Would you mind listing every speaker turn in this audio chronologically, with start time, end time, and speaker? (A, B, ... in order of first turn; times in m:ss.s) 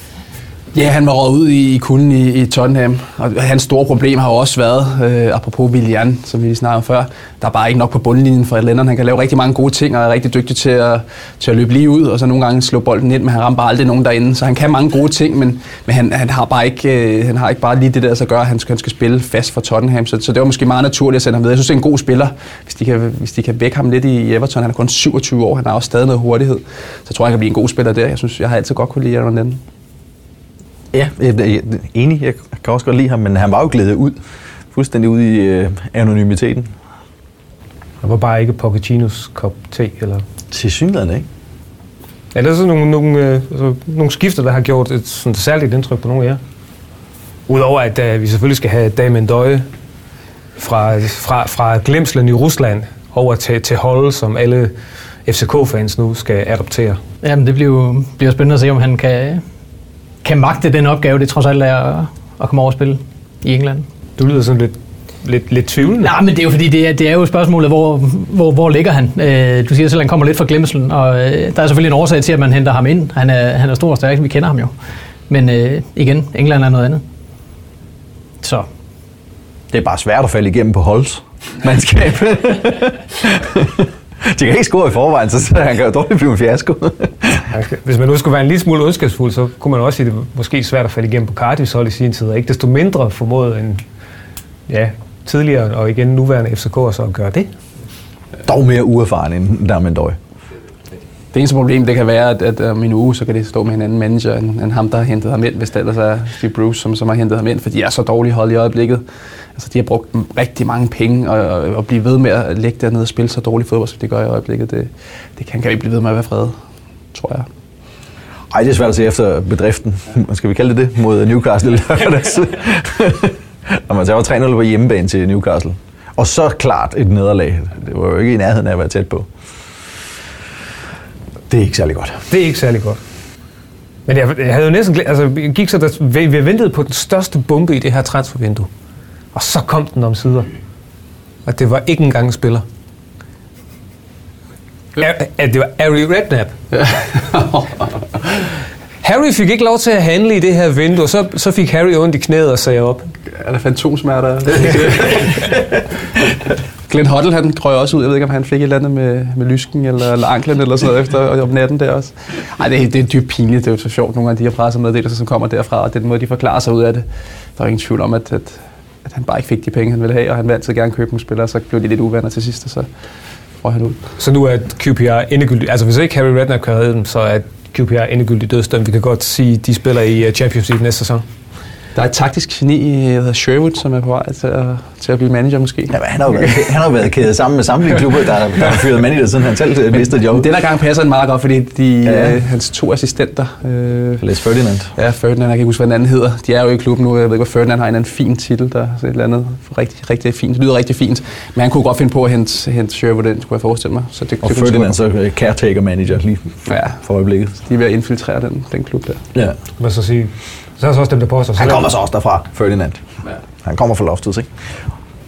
0:00.7-0:29.6 A
0:30.9-0:34.2 B
0:34.7-0:36.7 B
0:38.0-0:40.2 C
0:40.5-0:41.3 B
0:42.3-0:46.4 C
0:47.5-0:49.7 C
0:50.6-0:54.7 C
0:55.3-0:57.0 C
0:57.2-0:59.4 D
1:00.2-1:03.9 D
1:04.2-1:06.1 C
1:06.0-1:14.7 D
1:15.3-1:17.0 D
1:18.4-1:18.7 D
1:19.7-1:27.5 B
1:27.5-1:33.8 C
1:34.7-1:37.5 C
1:38.4-1:40.2 B
1:41.3-1:49.0 A
1:49.6-1:56.6 A
1:57.1-1:57.5 A
1:58.5-2:09.3 B
2:11.5-2:12.2 B
2:12.3-2:13.0 C
2:14.1-2:18.7 C
2:19.3-2:20.5 C
2:21.5-2:22.6 C
2:25.0-2:26.6 C
2:26.7-2:28.4 A
2:29.0-2:33.1 C
2:33.3-2:36.3 A
2:36.9-2:47.1 A
2:47.6-2:52.9 A
2:53.6-2:54.0 A
2:54.2-3:01.2 C
3:02.0-3:06.7 A
3:05.9-3:10.5 B
3:10.0-3:14.2 A
3:12.0-3:12.4 B
3:14.2-3:14.9 B
3:15.0-3:25.0 A
3:24.4-3:27.6 B
3:26.7-3:27.0 A
3:27.6-3:29.2 A
3:29.8-3:31.9 C
3:31.6-3:33.0 B
3:33.6-3:34.5 B